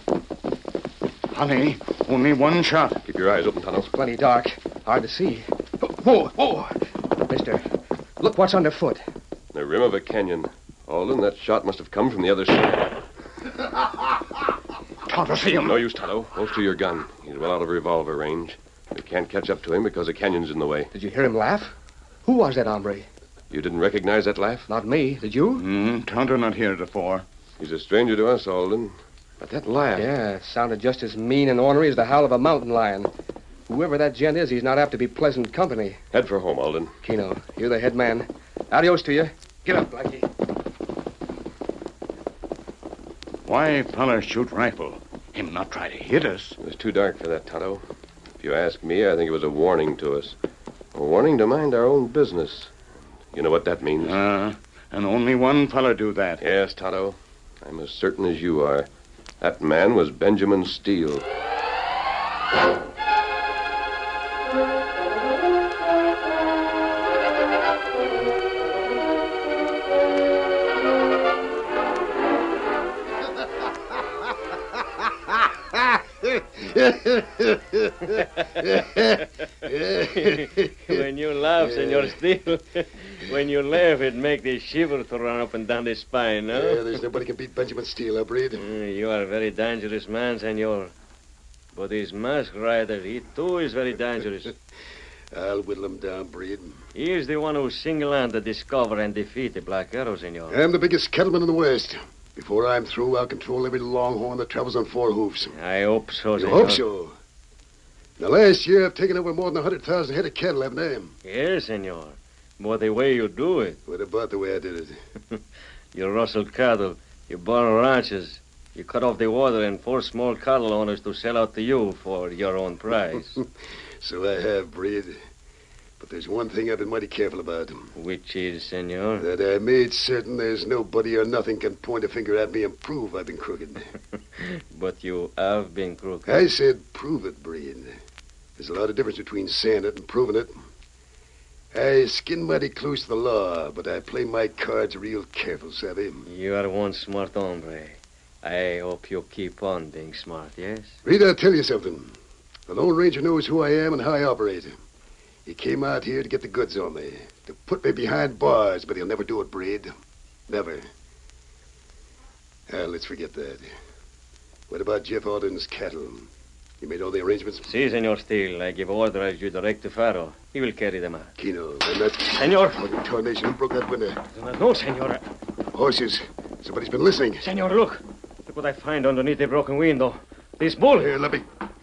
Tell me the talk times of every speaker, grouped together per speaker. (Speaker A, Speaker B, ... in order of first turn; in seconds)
Speaker A: 1.3-3.0, 15.1-15.8, 25.6-27.2, 43.5-46.6, 54.0-56.4
Speaker B: 3.0-3.9, 9.5-12.9, 15.6-20.9, 23.5-24.7, 27.6-30.1, 36.1-36.9, 46.6-47.8, 48.4-50.4, 50.9-52.7, 53.3-54.2, 56.4-58.9, 59.4-61.2
Speaker C: 3.9-7.6, 8.2-9.0, 20.9-21.7, 22.2-23.1, 24.7-25.6, 30.0-33.1, 33.7-36.0, 37.0-40.3
Speaker D: 75.9-81.0, 81.6-82.2, 86.5-88.6, 95.3-96.8, 100.5-105.5, 106.4-107.1, 108.2-111.2, 113.9-115.0, 124.0-125.2, 126.0-127.9, 129.2-133.9, 136.3-137.9, 138.6-140.5, 141.7-146.3, 151.1-152.2, 152.7-154.8, 155.5-159.9, 160.5-160.9, 162.7-163.7, 164.7-166.3, 166.8-167.7, 171.4-174.2, 175.7-177.5, 180.9-181.4
Speaker E: 78.6-87.0, 88.6-90.9, 91.7-94.5, 97.0-100.6, 105.5-106.8, 111.2-113.8, 115.9-123.4, 128.0-129.3, 134.7-136.4, 146.2-151.0, 167.6-171.3, 172.3-172.8, 174.3-175.2, 177.4-181.2